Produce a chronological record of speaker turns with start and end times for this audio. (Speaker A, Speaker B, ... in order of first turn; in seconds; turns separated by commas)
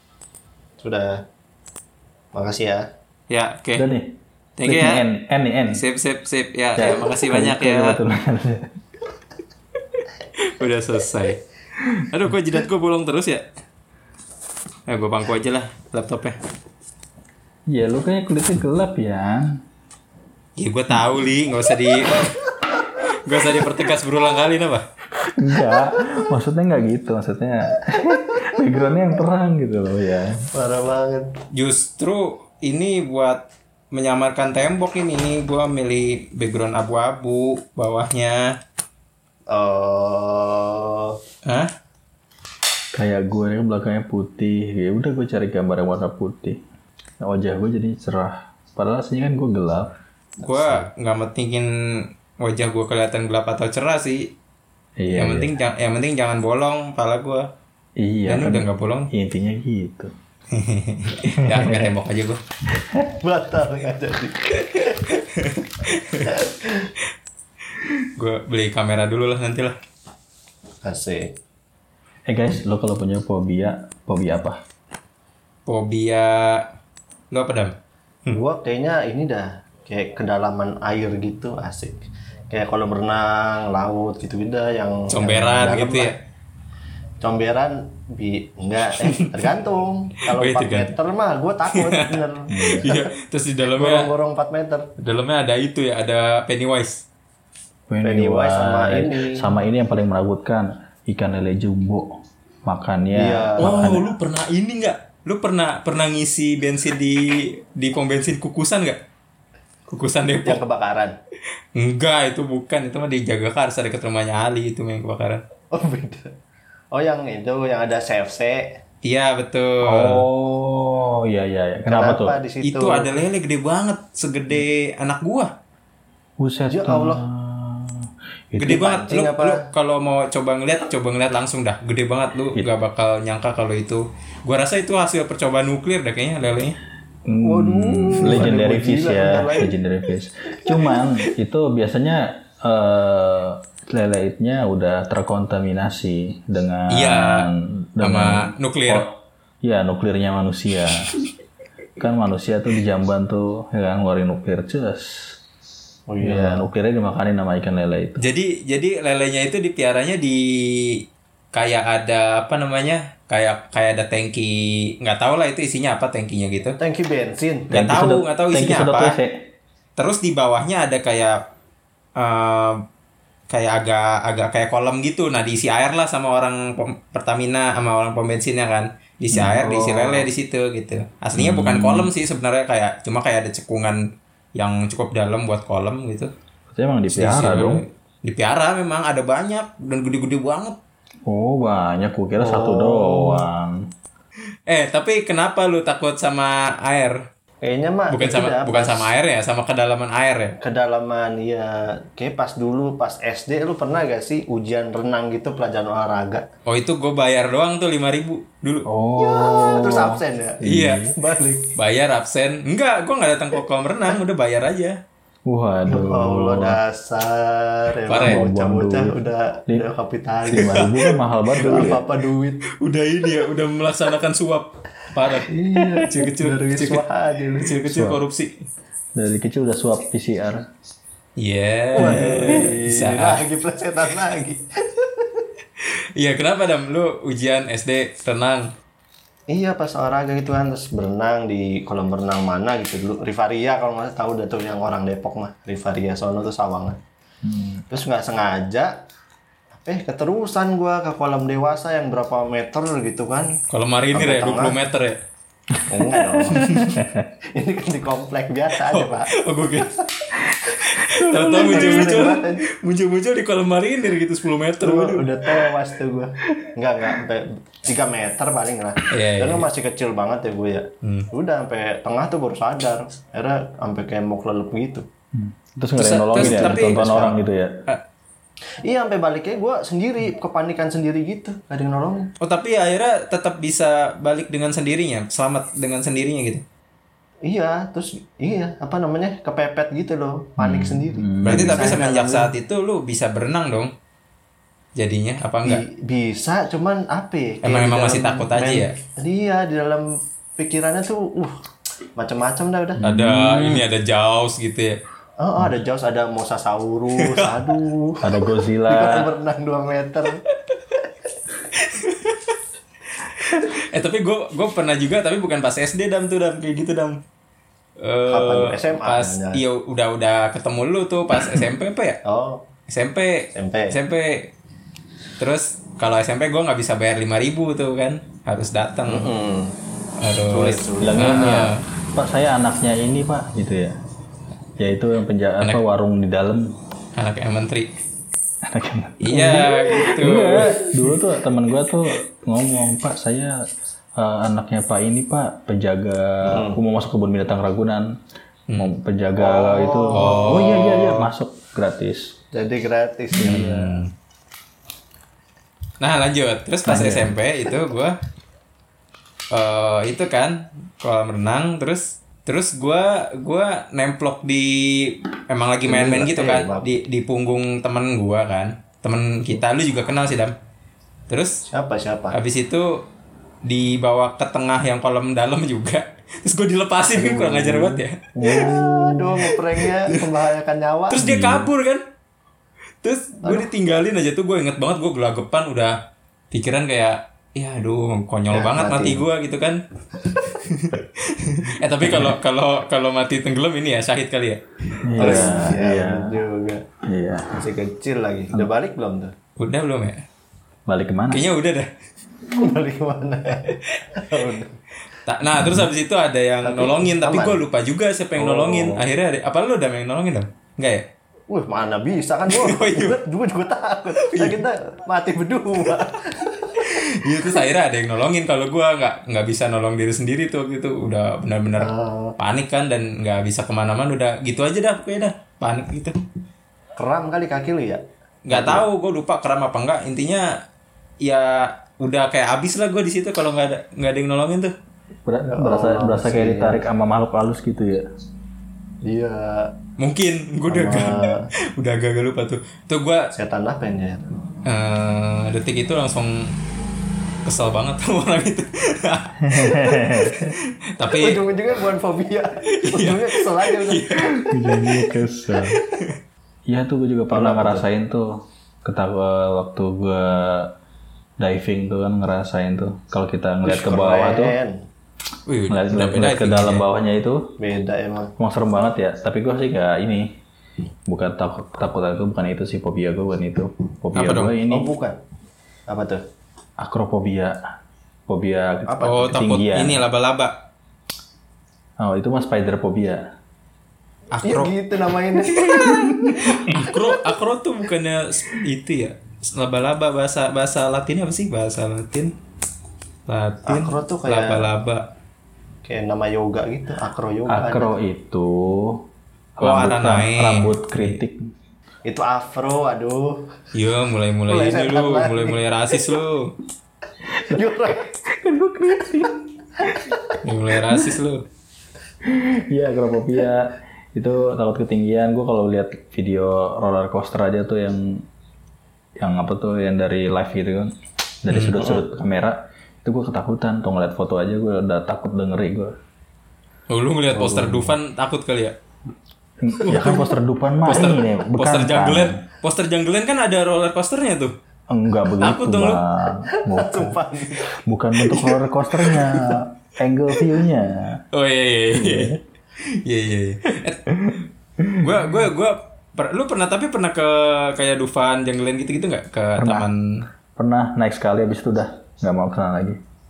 Speaker A: 0.8-1.2, Speaker A: 2.3-2.9, Speaker B: 3.3-3.9, Speaker C: 3.8-5.8, Speaker B: 4.6-5.0, Speaker B: 5.7-8.0, Speaker C: 6.8-8.7, Speaker B: 9.9-11.4, Speaker B: 12.1-13.4, Speaker B: 14.9-16.4, Speaker C: 17.7-19.6, Speaker B: 20.6-22.3, Speaker B: 23.1-24.8, Speaker C: 25.2-30.4, Speaker A: 25.7-26.0, Speaker A: 27.9-28.1, Speaker A: 30.5-31.4, Speaker B: 31.5-38.5, Speaker A: 39.5-41.2, Speaker B: 41.5-41.7, Speaker C: 42.9-46.6, Speaker C: 47.2-49.9, Speaker B: 50.4-54.3, Speaker C: 55.0-55.5, Speaker B: 55.1-57.5, Speaker C: 58.0-60.1, Speaker B: 58.3-59.1, Speaker B: 60.5-62.4, Speaker C: 61.2-61.9, Speaker C: 62.7-63.1, Speaker A: 63.2-65.2, Speaker B: 64.7-66.3, Speaker A: 66.2-66.8, Speaker B: 68.2-69.8, Speaker A: 70.8-71.3, Speaker C: 72.3-74.6, Speaker B: 75.7-76.7, Speaker B: 77.3-77.7, Speaker A: 78.3-86.1, Speaker B: 85.1-86.1, Speaker A: 87.2-93.1, Speaker B: 88.8-89.4, Speaker B: 90.3-90.9, Speaker B: 91.7-92.2, Speaker C: 92.5-92.9, Speaker B: 92.8-94.1, Speaker A: 93.7-94.9, Speaker B: 95.0-97.0, Speaker C: 97.9-102.1, Speaker A: 98.0-99.5, Speaker C: 102.7-104.1, Speaker A: 103.1-103.8, Speaker B: 103.6-109.0, Speaker B: 109.9-110.6, Speaker A: 110.4-111.2, Speaker B: 111.7-115.4, Speaker A: 115.7-116.3, Speaker A: 116.9-118.8, Speaker B: 119.0-120.2, Speaker C: 119.8-122.4, Speaker A: 121.9-123.1, Speaker B: 122.6-125.5, Speaker C: 126.4-128.8, Speaker A: 126.7-127.2, Speaker B: 128.6-136.8, Speaker A: 128.6-129.6, Speaker C: 137.2-151.1, Speaker A: 137.4-139.7, Speaker B: 146.9-147.5, Speaker B: 148.0-149.1, Speaker C: 152.0-155.4, Speaker A: 156.1-156.7, Speaker C: 156.2-158.2, Speaker B: 158.2-161.0, Speaker B: 161.5-166.8, Speaker A: 166.8-167.7, Speaker B: 167.7-169.2, Speaker C: 167.7-169.4, Speaker B: 170.0-171.4, Speaker B: 172.2-172.8, Speaker B: 173.5-184.0, Speaker C: 179.3-180.3, Speaker C: 181.3-182.1, Speaker B: 184.6-186.3, Speaker C: 186.7-187.8, Speaker B: 187.1-190.8, Speaker C: 191.3-193.8, Speaker A: 192.4-193.5, Speaker B: 194.7-197.2, Speaker A: 197.6-199.1, Speaker B: 198.1-200.6, Speaker A: 200.6-206.4, Speaker B: 206.7-208.8, Speaker C: 208.8-211.1, Speaker A: 209.2-210.6, Speaker B: 210.6-211.0, Speaker A: 211.1-211.7, Speaker B: 211.8-215.0, Speaker C: 215.5-216.8, Speaker A: 215.9-221.0, Speaker B: 218.1-218.4, Speaker C: 218.2-219.9, Speaker C: 220.5-222.0, Speaker B: 220.6-220.8, Speaker A: 221.5-222.6, Speaker B: 222.8-225.5, Speaker A: 225.5-227.7, Speaker B: 226.0-227.0, Speaker B: 227.6-228.5, Speaker C: 227.8-228.2, Speaker C: 229.2-230.6, Speaker B: 231.4-233.4, Speaker A: 231.9-235.4, Speaker C: 232.0-232.7, Speaker B: 235.8-238.7, Speaker A: 239.5-247.0, Speaker C: 247.4-247.8, Speaker A: 247.9-249.0, Speaker A: 249.8-253.6, Speaker B: 253.7-255.2, Speaker A: 254.1-254.8, Speaker A: 255.9-262.6, Speaker C: 256.2-257.3, Speaker B: 256.5-256.8, Speaker B: 258.8-259.9, Speaker B: 260.7-265.5, Speaker C: 261.4-262.1, Speaker A: 264.8-275.1, Speaker B: 269.1-269.7, Speaker B: 271.0-271.3, Speaker C: 275.3-277.8, Speaker B: 275.9-277.0, Speaker A: 276.3-277.4, Speaker A: 278.8-282.3, Speaker B: 282.4-286.6, Speaker A: 287.4-292.5, Speaker C: 290.6-292.0, Speaker B: 291.4-293.9, Speaker B: 294.9-295.8, Speaker A: 295.6-301.6, Speaker B: 297.6-298.9, Speaker A: 302.2-303.0, Speaker C: 303.0-303.9, Speaker B: 303.0-305.0, Speaker A: 305.4-310.4, Speaker B: 307.2-307.5, Speaker C: 308.2-309.3, Speaker B: 311.7-312.6, Speaker B: 313.1-317.2, Speaker B: 318.0-322.2, Speaker A: 318.3-319.6, Speaker A: 322.2-322.6, Speaker B: 322.9-324.5, Speaker A: 323.5-324.0, Speaker B: 325.4-329.3, Speaker A: 329.1-329.7, Speaker B: 330.2-331.8, Speaker A: 330.5-331.5, Speaker C: 331.0-334.0, Speaker C: 334.8-336.8, Speaker B: 337.2-337.9, Speaker C: 338.6-343.5, Speaker B: 339.2-341.1, Speaker C: 344.2-348.1, Speaker A: 346.4-346.8, Speaker C: 348.8-352.4, Speaker A: 349.4-350.8, Speaker B: 350.1-351.2, Speaker A: 352.5-354.0, Speaker C: 353.4-353.8, Speaker B: 353.4-354.1, Speaker B: 356.0-358.2, Speaker C: 356.8-357.3, Speaker B: 359.5-370.5, Speaker A: 365.8-367.0, Speaker B: 371.3-371.6, Speaker A: 371.7-372.4, Speaker B: 372.3-373.0, Speaker B: 373.6-378.7, Speaker C: 377.2-379.5, Speaker A: 377.4-377.7, Speaker A: 378.4-381.2, Speaker B: 379.8-380.2, Speaker B: 381.1-382.0, Speaker C: 381.2-381.7, Speaker B: 383.0-386.0, Speaker A: 383.4-383.7, Speaker B: 386.5-389.8, Speaker A: 388.5-389.2, Speaker B: 390.6-394.6, Speaker C: 392.0-392.4, Speaker C: 395.0-396.4, Speaker A: 395.2-396.8, Speaker B: 395.2-395.5, Speaker C: 397.0-397.6, Speaker A: 397.5-399.3, Speaker B: 399.6-400.2, Speaker C: 400.9-401.4, Speaker B: 401.3-401.9, Speaker A: 402.5-404.8, Speaker B: 405.2-411.0, Speaker A: 406.6-407.6, Speaker A: 408.4-409.0, Speaker A: 411.5-417.0, Speaker B: 412.5-413.2, Speaker B: 414.1-414.6, Speaker B: 416.7-426.1, Speaker A: 421.8-422.4, Speaker A: 427.0-428.8, Speaker B: 428.4-430.5, Speaker B: 431.2-434.7, Speaker C: 435.2-438.1, Speaker A: 435.5-436.8, Speaker A: 439.0-439.7, Speaker B: 440.0-443.3, Speaker A: 440.7-441.5, Speaker A: 443.3-444.3, Speaker B: 444.6-446.5, Speaker B: 447.4-451.4, Speaker C: 449.4-450.5, Speaker A: 451.0-454.3, Speaker B: 452.7-454.8, Speaker C: 454.3-455.8, Speaker A: 455.6-455.8, Speaker C: 456.7-460.7, Speaker A: 457.3-457.9, Speaker C: 461.4-464.6, Speaker A: 463.6-464.8, Speaker B: 465.5-466.8, Speaker C: 465.7-467.5, Speaker A: 467.6-468.3, Speaker C: 468.4-470.4, Speaker C: 471.1-474.9, Speaker B: 474.1-474.5, Speaker A: 474.7-475.2, Speaker A: 475.9-476.2, Speaker C: 476.8-477.6, Speaker C: 478.3-480.0, Speaker A: 478.9-479.3, Speaker B: 479.0-480.6, Speaker C: 482.0-483.3, Speaker B: 484.3-484.7, Speaker A: 484.4-486.3, Speaker C: 485.4-486.8, Speaker B: 486.4-492.3, Speaker B: 493.3-495.1, Speaker A: 493.7-494.7, Speaker A: 495.8-497.9, Speaker C: 497.5-499.1, Speaker C: 499.6-501.4, Speaker B: 499.6-501.1, Speaker A: 502.0-503.5, Speaker B: 503.7-506.5, Speaker A: 504.5-505.6, Speaker C: 507.4-510.1, Speaker A: 507.4-508.1, Speaker A: 509.8-510.4, Speaker B: 510.4-511.4, Speaker C: 512.2-518.2, Speaker C: 519.2-526.0, Speaker B: 521.5-522.0, Speaker B: 526.9-528.8, Speaker C: 527.3-528.0, Speaker C: 529.6-532.4, Speaker B: 529.8-530.3, Speaker B: 530.8-534.5, Speaker C: 534.9-537.2, Speaker B: 535.4-536.0, Speaker A: 536.6-537.7, Speaker C: 537.8-541.2, Speaker A: 538.2-539.3, Speaker B: 541.3-544.1, Speaker C: 541.9-542.4, Speaker C: 544.1-545.3, Speaker B: 544.9-550.2, Speaker C: 549.6-549.9, Speaker C: 550.5-553.0